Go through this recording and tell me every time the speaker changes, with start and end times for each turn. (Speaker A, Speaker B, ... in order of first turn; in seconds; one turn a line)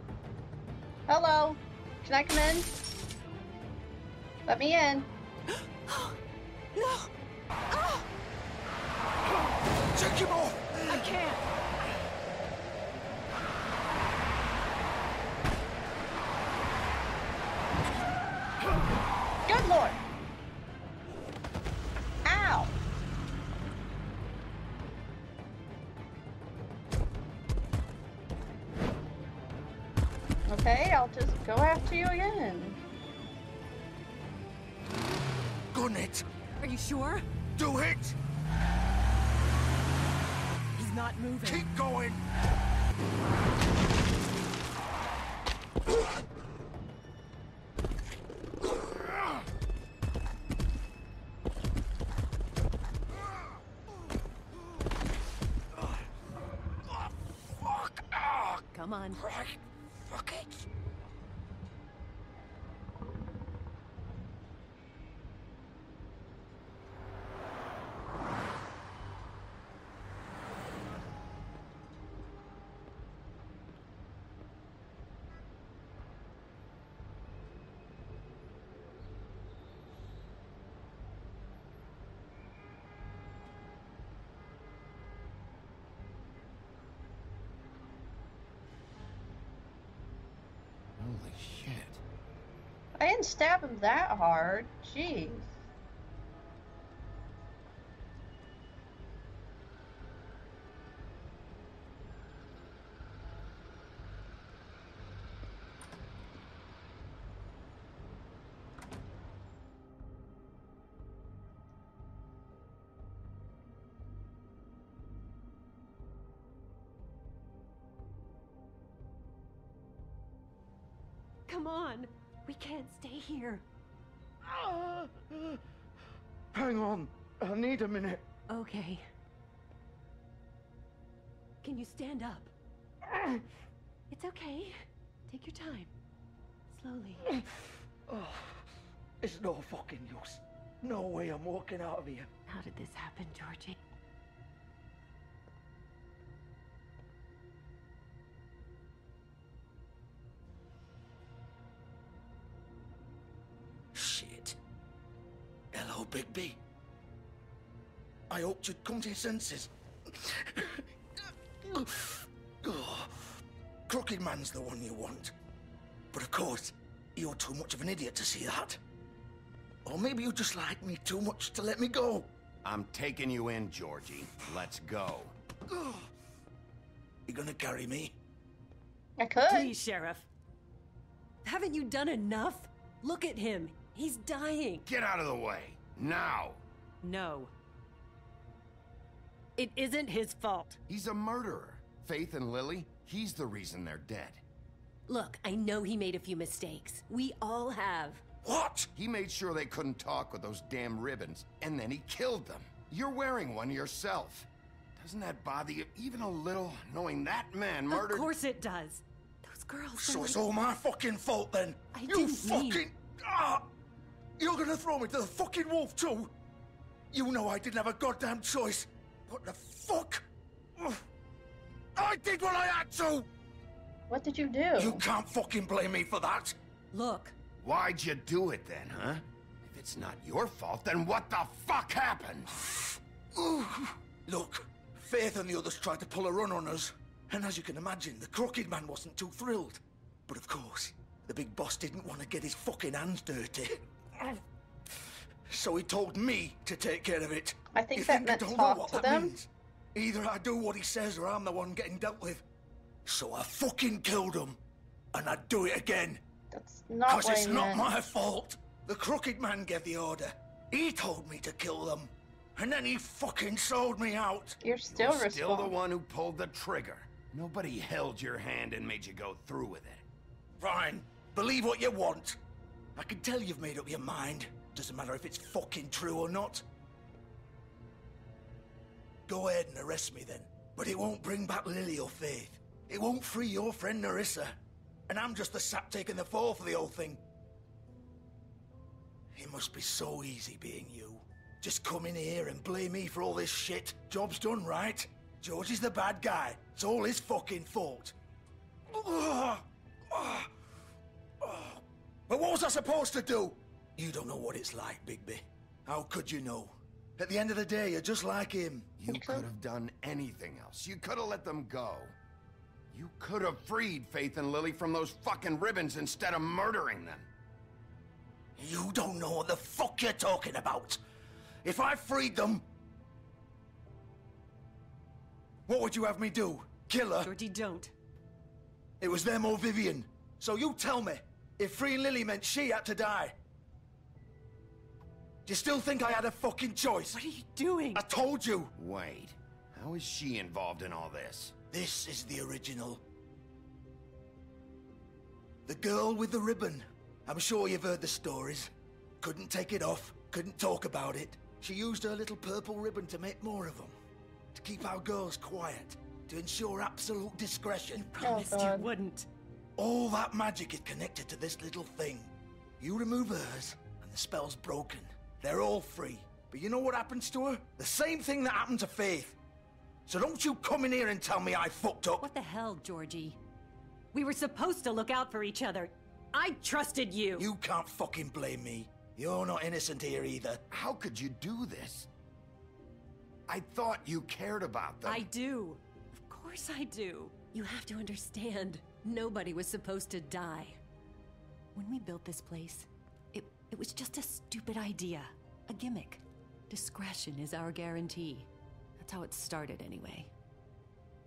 Speaker A: 1.1-2.7
Speaker A: 4.5-5.1
Speaker B: 5.9-6.2
Speaker B: 6.8-7.1
Speaker B: 7.8-8.0
Speaker C: 9.9-11.0
Speaker B: 10.9-11.4
Speaker A: 19.5-20.0
Speaker A: 22.2-22.7
Speaker A: 30.5-32.8
Speaker C: 35.7-36.2
Speaker B: 36.6-37.2
Speaker C: 37.6-38.2
Speaker B: 40.8-41.7
Speaker C: 41.4-42.2
Speaker C: 57.6-60.6
Speaker B: 58.7-59.2
Speaker D: 91.0-92.0
Speaker A: 93.0-95.6
Speaker B: 121.5-123.6
Speaker C: 124.5-125.6
Speaker C: 126.5-128.2
Speaker B: 128.5-129.0
Speaker B: 131.6-132.5
Speaker B: 134.1-134.8
Speaker B: 135.3-135.9
Speaker B: 136.7-137.3
Speaker C: 138.1-138.6
Speaker C: 139.2-142.3
Speaker B: 142.5-143.8
Speaker C: 153.9-154.6
Speaker C: 155.7-156.6
Speaker C: 158.3-160.8
Speaker C: 161.6-163.2
Speaker C: 163.9-165.3
Speaker C: 166.1-168.8
Speaker C: 169.8-172.3
Speaker D: 172.6-175.3
Speaker C: 177.3-178.2
Speaker A: 179.2-179.7
Speaker B: 179.5-180.3
Speaker B: 181.4-184.8
Speaker D: 184.9-186.6
Speaker B: 187.0-187.5
Speaker B: 189.6-190.8
Speaker D: 190.9-194.4
Speaker B: 195.1-198.2
Speaker C: 198.4-198.9
Speaker D: 198.9-208.3
Speaker B: 207.9-210.5
Speaker C: 210.0-213.7
Speaker B: 211.9-212.9
Speaker C: 214.4-216.3
Speaker C: 217.1-220.3
Speaker C: 222.0-223.3
Speaker A: 224.1-225.0
Speaker C: 224.8-226.6
Speaker B: 226.9-227.3
Speaker D: 227.6-232.5
Speaker C: 233.3-244.4
Speaker C: 245.5-252.4
Speaker A: 247.7-249.3
Speaker C: 253.1-254.6
Speaker C: 255.1-256.2
Speaker A: 256.5-257.9
Speaker C: 257.1-264.6
Speaker A: 264.6-265.7
Speaker D: 264.9-270.0
Speaker C: 270.6-272.4
Speaker C: 273.0-276.6
Speaker C: 279.3-284.6
Speaker C: 285.1-287.2
Speaker C: 289.3-298.1
Speaker C: 298.9-300.5
Speaker C: 301.4-308.9
Speaker D: 309.0-312.1
Speaker A: 309.1-309.5
Speaker D: 312.9-317.3
Speaker C: 318.6-321.0
Speaker C: 321.6-322.6
Speaker C: 325.7-327.3
Speaker B: 327.2-327.9
Speaker C: 329.0-333.4
Speaker C: 335.5-337.2
Speaker B: 337.1-338.1
Speaker C: 337.9-338.7
Speaker D: 338.8-341.5
Speaker C: 341.7-343.0
Speaker C: 345.7-348.7
Speaker C: 349.2-353.9
Speaker C: 354.6-358.2
Speaker B: 358.2-359.3
Speaker A: 358.2-358.9
Speaker C: 359.8-369.4
Speaker C: 370.1-372.2
Speaker B: 372.2-373.4
Speaker B: 374.1-377.5
Speaker C: 377.4-380.6
Speaker D: 380.7-382.1
Speaker D: 383.5-385.3
Speaker B: 385.0-390.8
Speaker B: 391.8-398.5
Speaker B: 399.0-400.3